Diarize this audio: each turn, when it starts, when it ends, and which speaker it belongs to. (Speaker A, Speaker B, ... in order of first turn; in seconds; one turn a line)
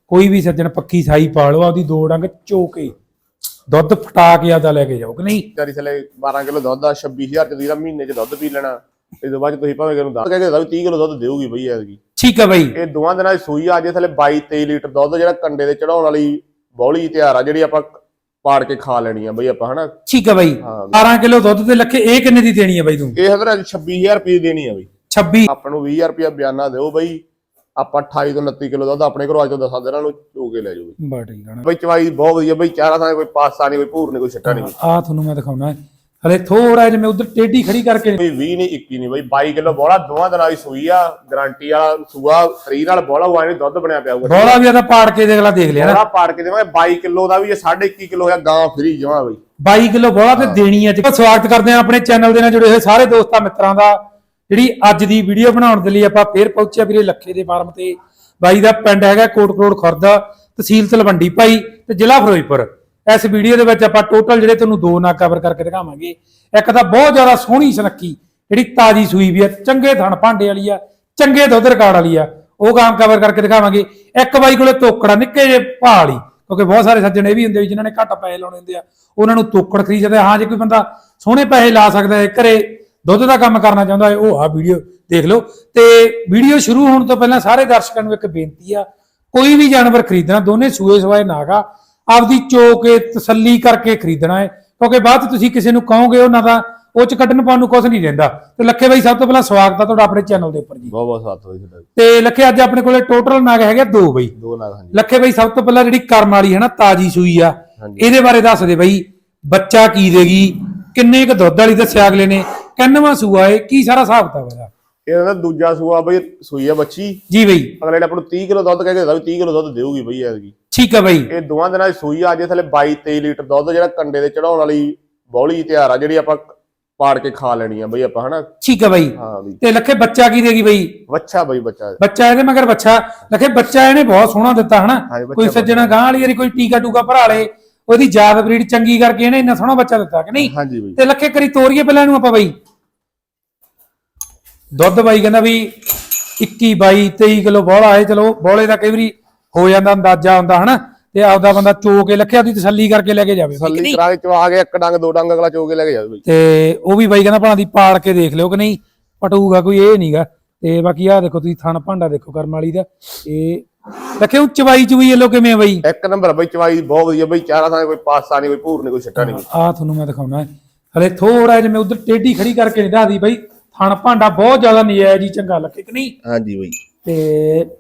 Speaker A: 0.1-2.9
Speaker A: 3.7-5.5
Speaker B: 5.5-12.0
Speaker A: 12.2-12.7
Speaker B: 12.8-19.9
Speaker A: 20.1-23.2
Speaker B: 20.6-21.1
Speaker B: 23.2-24.9
Speaker A: 25.1-25.5
Speaker B: 25.5-27.2
Speaker B: 27.8-31.0
Speaker A: 31.0-31.7
Speaker B: 31.6-34.8
Speaker A: 34.5-38.2
Speaker B: 38.2-44.6
Speaker A: 44.2-46.0
Speaker B: 45.8-49.4
Speaker A: 49.6-54.0
Speaker A: 54.5-100.9
Speaker B: 100.9-101.9
Speaker A: 102.0-104.3
Speaker B: 104.4-105.0
Speaker A: 104.9-114.7
Speaker B: 107.8-108.1
Speaker B: 115.1-117.2
Speaker A: 117.3-117.7
Speaker B: 117.8-120.5
Speaker A: 120.7-121.3
Speaker B: 121.3-128.5
Speaker A: 128.6-131.0
Speaker B: 129.2-129.6
Speaker B: 131.1-132.0
Speaker A: 132.0-142.6
Speaker B: 135.1-136.0
Speaker B: 140.4-141.0
Speaker A: 144.8-154.0
Speaker B: 153.6-156.2
Speaker A: 156.2-163.7
Speaker A: 164.2-165.8
Speaker B: 165.8-169.5
Speaker A: 169.2-176.1
Speaker B: 176.2-176.8
Speaker A: 177.0-177.7